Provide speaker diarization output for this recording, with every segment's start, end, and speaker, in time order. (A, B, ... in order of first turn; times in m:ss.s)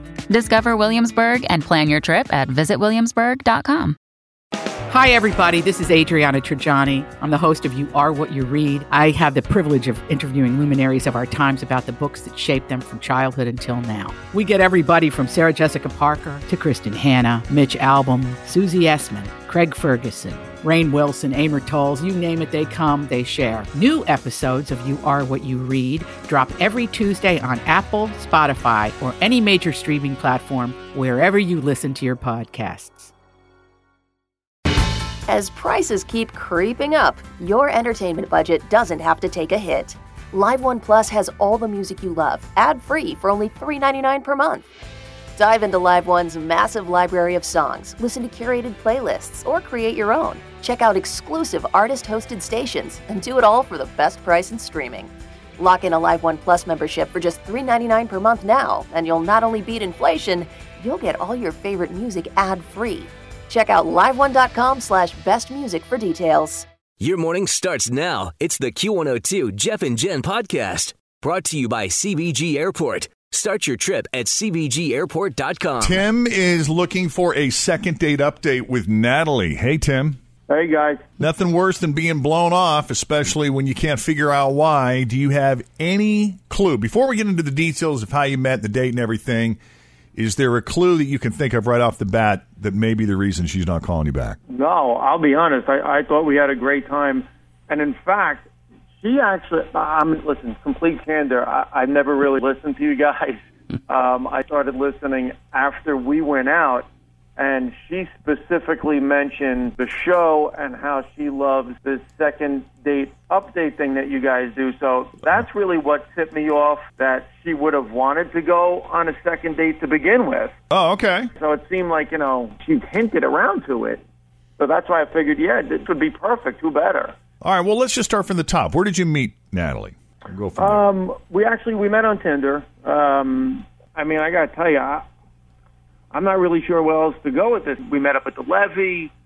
0:00.3-0:04.0 A
0:04.9-0:33.1 B
0:35.3-0:44.6 C
0:45.4-1:06.6 C
1:07.0-1:15.9 D
1:15.8-1:20.2 E
1:20.5-1:21.0 F
1:21.2-1:29.6 E
1:30.1-1:34.4 E
1:34.5-1:38.4 F
1:39.0-1:46.8 F
1:47.4-2:00.5 F
2:00.7-2:01.3 E
2:01.4-2:04.0 F
2:04.6-2:07.1 F
2:07.4-2:10.9 E
2:10.6-2:15.0 F
2:16.1-2:19.1 F